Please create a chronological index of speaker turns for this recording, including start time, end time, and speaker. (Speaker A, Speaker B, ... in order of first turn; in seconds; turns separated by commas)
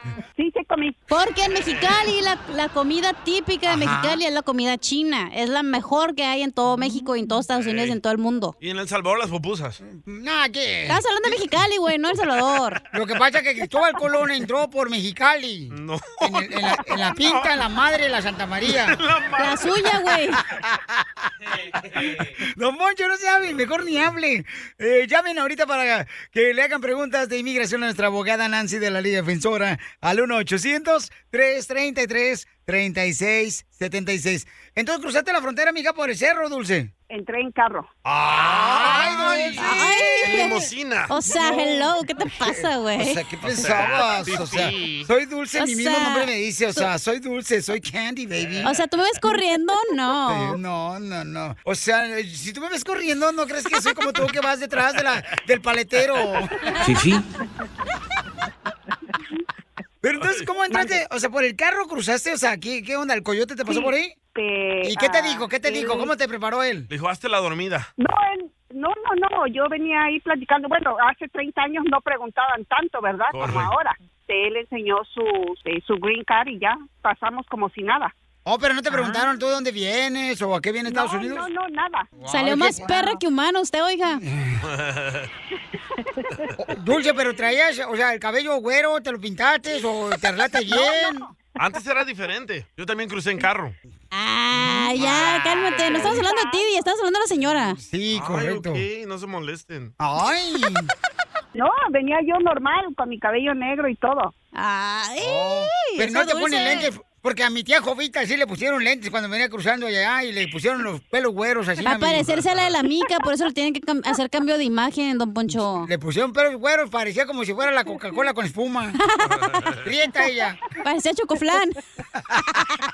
Speaker A: 0.4-1.0, Speaker B: 1.1-8.5, Speaker C: 3.7-4.2, Speaker D: 7.5-8.0, Speaker D: 8.6-9.8, Speaker C: 9.8-11.3, Speaker B: 10.9-12.8, Speaker C: 12.9-19.0, Speaker D: 15.7-17.5, Speaker D: 18.6-20.2, Speaker B: 19.4-20.4, Speaker C: 20.5-21.0, Speaker C: 22.6-36.9, Speaker A: 37.1-37.9, Speaker C: 38.1-40.6, Speaker D: 38.2-41.4, Speaker B: 39.6-43.2, Speaker C: 42.4-48.7, Speaker D: 43.5-45.1, Speaker B: 45.5-46.8, Speaker B: 48.6-50.6, Speaker C: 50.3-56.7, Speaker C: 60.0-64.1, Speaker A: 60.7-61.0, Speaker A: 63.7-66.1, Speaker C: 64.8-66.9, Speaker D: 66.9-67.9, Speaker A: 68.0-78.1, Speaker D: 73.3-73.7, Speaker C: 78.5-81.5, Speaker A: 80.9-82.1, Speaker C: 82.2-82.9, Speaker B: 82.2-84.2, Speaker C: 84.3-84.6, Speaker D: 84.7-85.3, Speaker C: 86.6-91.3, Speaker A: 90.7-91.3, Speaker D: 91.6-93.8, Speaker B: 94.1-97.8, Speaker C: 94.7-96.1, Speaker A: 95.6-96.6, Speaker C: 97.8-98.8, Speaker D: 98.1-99.9, Speaker C: 100.0-100.9, Speaker A: 101.5-104.3, Speaker B: 104.5-106.9, Speaker C: 105.2-112.3, Speaker B: 111.8-115.9, Speaker D: 112.3-112.8, Speaker C: 115.5-119.0, Speaker B: 119.0-119.4, Speaker D: 119.3-119.8, Speaker C: 119.8-120.6, Speaker B: 120.8-121.8